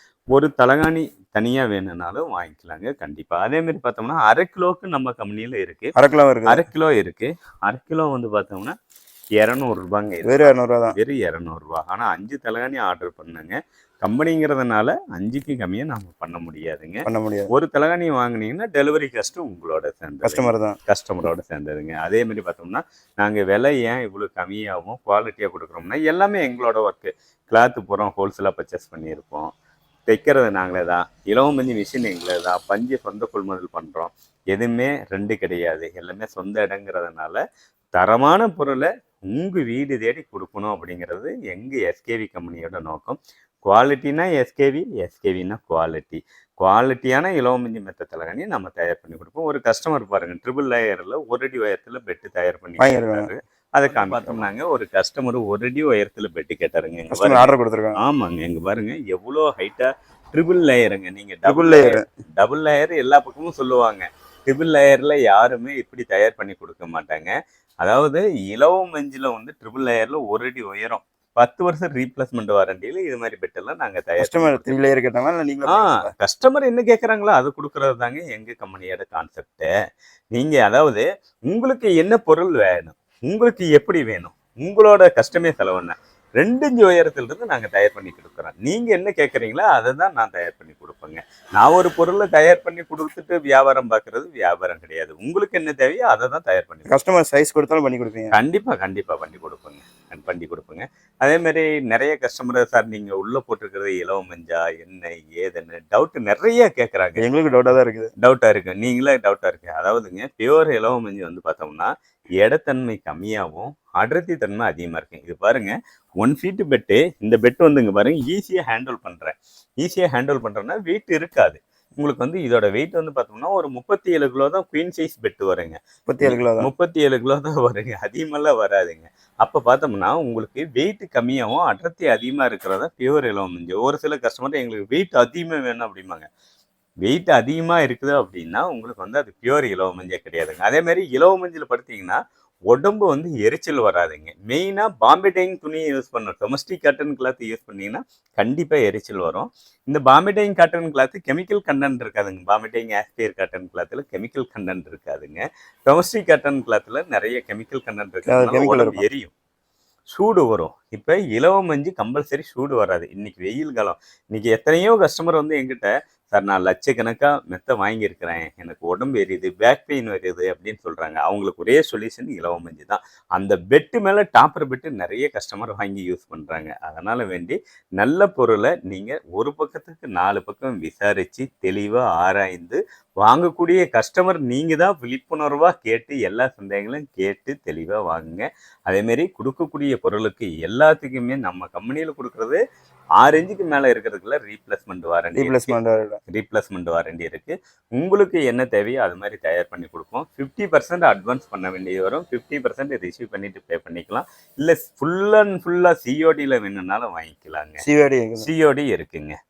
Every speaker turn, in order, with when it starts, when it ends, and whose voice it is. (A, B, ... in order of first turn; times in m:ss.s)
0:00.3-0:05.9 A
0:06.0-0:06.6 B
0:06.5-0:08.8 A
0:09.4-0:29.5 A
0:10.2-0:11.0 B
0:17.0-0:17.5 B
0:20.2-0:20.8 B
0:30.1-0:37.4 A
0:38.0-1:14.8 A
0:52.8-0:53.3 B
0:53.9-0:54.4 B
0:57.1-0:58.0 B
1:01.4-1:02.0 B
1:14.2-1:16.1 B
1:15.6-1:19.7 A
1:20.3-1:37.0 A
1:36.9-1:38.4 B
1:38.3-1:47.2 A
1:47.2-1:48.1 B
1:48.2-2:16.3 A
2:06.1-2:06.7 B
2:17.0-2:39.3 A
2:38.2-2:39.0 B
2:40.1-3:12.6 A
3:13.2-3:15.7 A
3:15.3-3:16.2 B
3:16.3-3:27.8 A
3:27.8-3:28.5 B
3:28.4-3:29.4 A